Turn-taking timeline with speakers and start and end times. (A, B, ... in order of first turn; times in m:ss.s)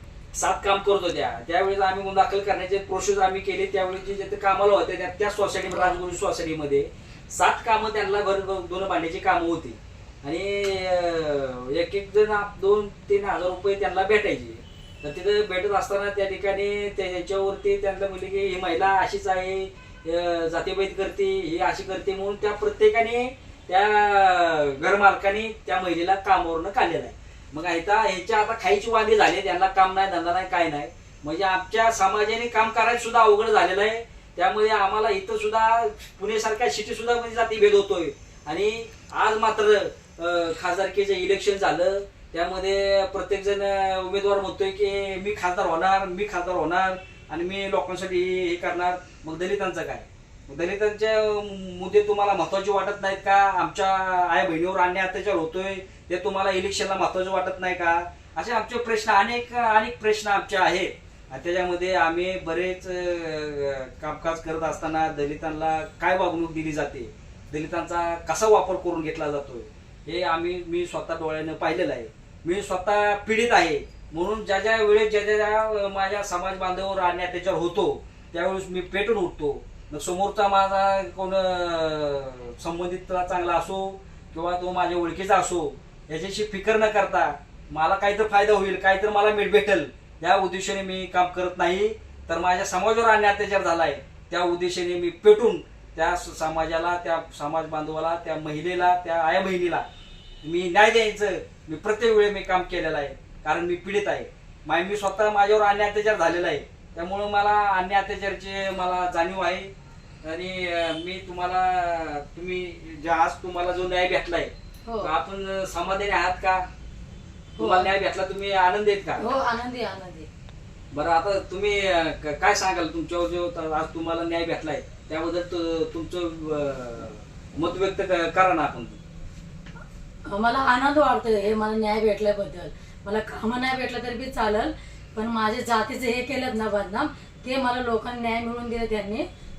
0:00.3-1:39.9 A
0:05.7-0:06.0 B
1:40.4-1:56.7 A
1:54.9-1:55.1 B
1:57.6-1:57.9 B
1:57.6-1:59.3 A
1:59.2-2:00.3 B
2:00.9-2:09.0 A
2:10.3-2:19.3 B